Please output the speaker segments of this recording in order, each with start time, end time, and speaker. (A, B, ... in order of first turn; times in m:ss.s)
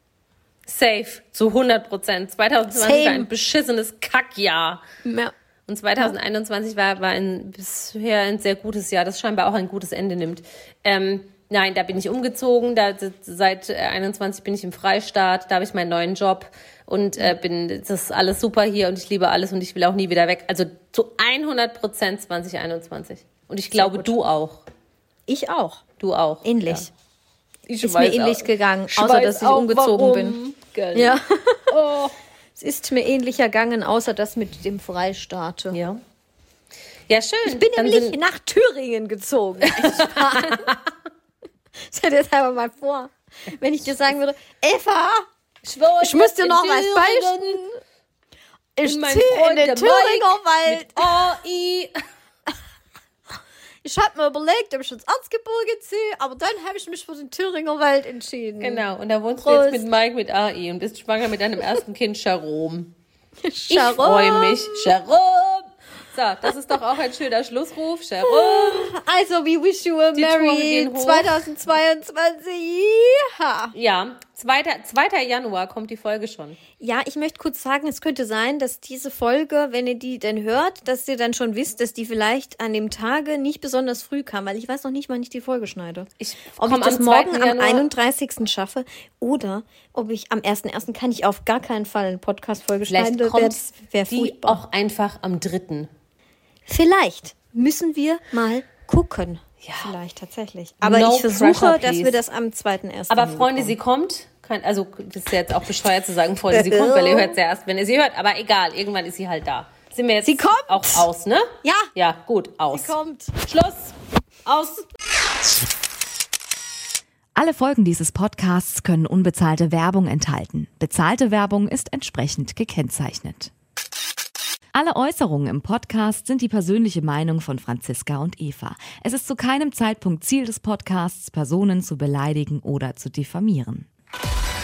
0:00.7-0:04.8 A
0:02.7-0:03.3 B
0:05.0-0:05.3 B
0:05.7-0:24.6 A
0:23.7-0:24.1 B
0:25.3-0:25.8 B
0:26.0-0:26.9 A
0:26.4-0:26.9 B
0:27.7-0:32.1 A
0:27.8-0:30.4 B
0:31.0-0:31.7 B
0:32.6-0:35.8 B
0:35.7-0:36.0 A
0:37.1-0:38.2 A
0:37.4-0:40.7 B
0:39.6-0:40.9 A
0:41.8-0:45.3 B
0:45.6-0:47.6 A
0:46.0-0:47.8 B
0:48.8-0:51.1 B
0:48.8-0:51.9 A
0:53.8-0:58.8 B
0:58.6-1:02.9 A
0:59.4-0:59.9 B
1:03.4-1:04.9 B
1:03.7-1:08.9 A
1:08.2-1:13.7 B
1:10.2-1:11.4 A
1:13.7-1:16.6 A
1:16.8-1:34.6 B
1:26.2-1:27.9 A
1:32.9-1:35.9 A
1:36.7-1:43.8 B
1:39.6-1:39.9 A
1:40.8-1:42.2 A
1:43.1-1:54.8 A
1:46.5-1:47.4 B
1:50.2-1:51.1 B
1:51.6-1:51.9 B
1:52.7-1:53.3 B
1:57.4-2:03.5 C
2:04.7-2:13.9 C